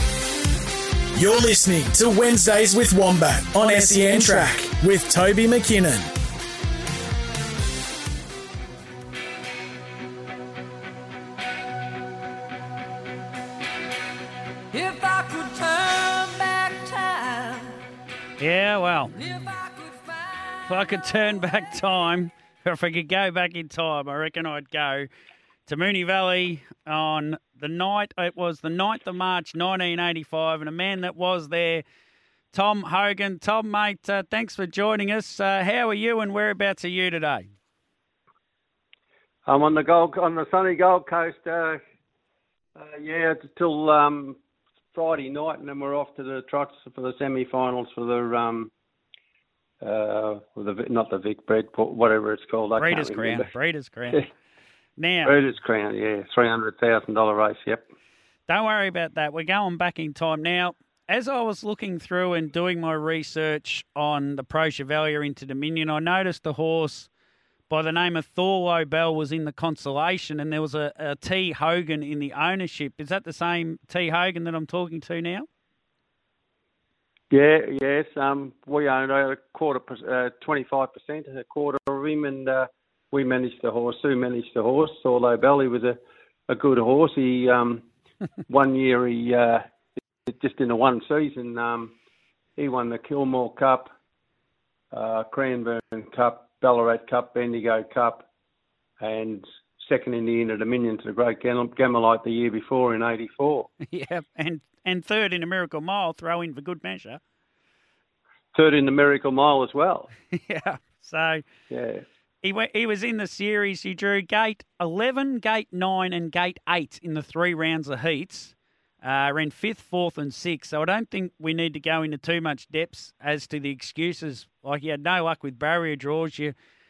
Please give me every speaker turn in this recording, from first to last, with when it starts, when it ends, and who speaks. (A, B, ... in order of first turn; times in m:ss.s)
0:01.1-0:06.1 A
0:14.7-0:17.8 B
0:18.4-0:19.1 C
0:19.2-0:20.7 B
0:20.7-0:25.1 C
0:25.6-0:31.8 C
0:32.5-0:37.5 C
0:39.4-0:41.8 D
0:42.8-0:44.4 D
0:44.9-0:48.7 D
0:49.8-0:53.5 D
0:52.8-0:54.3 C
0:55.0-0:55.4 C
0:55.2-0:57.8 D
0:58.5-1:07.1 C
1:07.7-1:15.5 C
1:17.3-1:26.0 D
1:26.5-1:27.8 D
1:28.5-1:29.6 D
1:30.3-1:31.9 D
1:32.6-1:33.9 D
1:34.9-1:38.2 D
1:39.0-1:43.7 D
1:43.9-1:47.2 C
1:48.5-1:50.1 D
1:50.3-1:51.4 C
1:51.7-1:52.0 D
1:52.4-2:06.5 C